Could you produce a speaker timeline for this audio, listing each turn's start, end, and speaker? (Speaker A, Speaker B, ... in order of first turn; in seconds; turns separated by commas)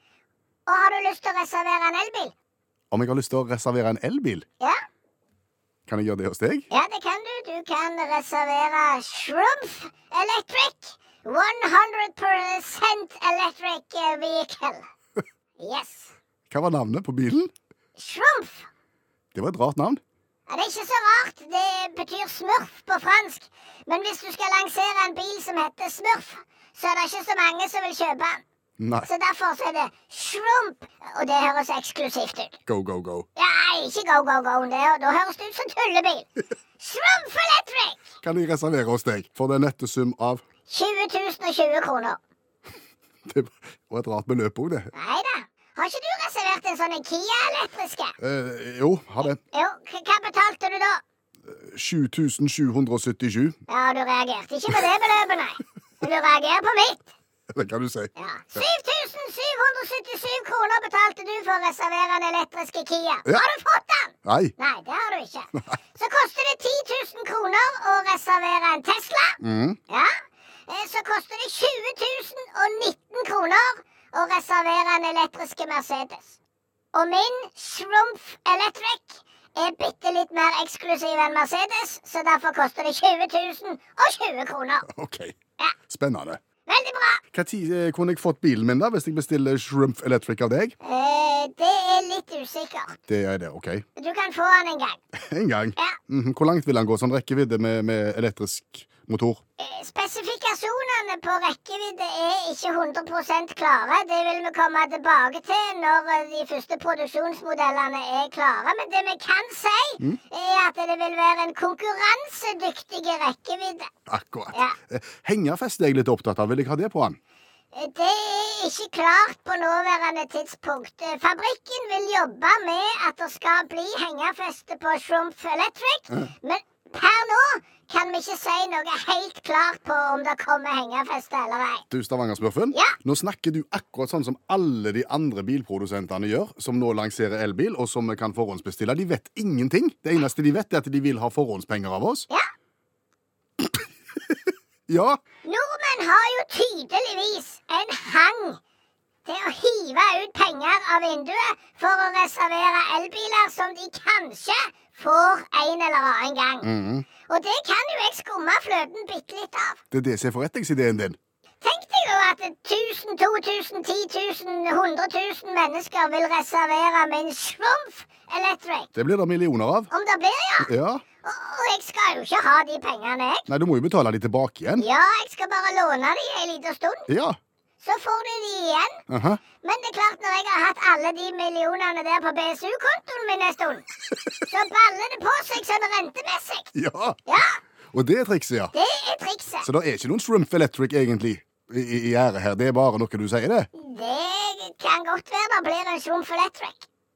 Speaker A: 0.7-2.3, Speaker B: 2.9-4.4, Speaker B: 5.8-6.7, Speaker A: 6.7-14.9, Speaker A: 15.6-16.1, Speaker B: 16.5-17.5, Speaker A: 17.9-18.7, Speaker B: 19.3-20.0, Speaker A: 20.5-28.4, Speaker B: 28.8-29.1, Speaker A: 29.0-32.6, Speaker B: 32.6-33.3, Speaker A: 33.4-38.1, Speaker B: 38.2-40.4, Speaker A: 40.7-42.2, Speaker B: 43.3-44.9, Speaker A: 44.9-48.1, Speaker B: 48.2-49.4, Speaker A: 49.5-51.0, Speaker B: 51.5-53.6, Speaker A: 53.7-57.0, Speaker B: 57.5-58.1, Speaker A: 58.1-76.4, Speaker B: 64.2-64.5, Speaker B: 69.4-69.8, Speaker A: 76.9-84.8, Speaker B: 84.8-85.3, Speaker B: 85.9-86.4, Speaker A: 86.7-87.2, Speaker B: 87.3-90.8, Speaker A: 90.8-93.0, Speaker B: 93.1-93.8, Speaker A: 94.0-95.0, Speaker B: 95.2-99.4, Speaker A: 99.6-113.9, Speaker B: 114.1-117.2, Speaker A: 117.7-131.8, Speaker B: 131.9-142.3, Speaker B: 144.9-145.2, Speaker A: 145.4-148.6, Speaker A: 149.2-156.7, Speaker B: 156.6-157.1, Speaker A: 157.3-159.8, Speaker B: 159.9-161.2, Speaker A: 161.6-168.9, Speaker B: 168.9-169.9, Speaker A: 169.9-170.7, Speaker B: 170.6-171.0, Speaker A: 171.2-173.5, Speaker B: 173.5-174.8, Speaker A: 174.8-177.1, Speaker B: 177.1-177.4, Speaker A: 177.8-179.0, Speaker B: 179.1-179.4, Speaker A: 179.6-183.8, Speaker A: 184.5-186.7, Speaker B: 186.7-187.2, Speaker A: 187.3-187.6, Speaker B: 187.9-188.7, Speaker A: 188.7-189.7, Speaker B: 189.6-193.7, Speaker A: 193.7-196.9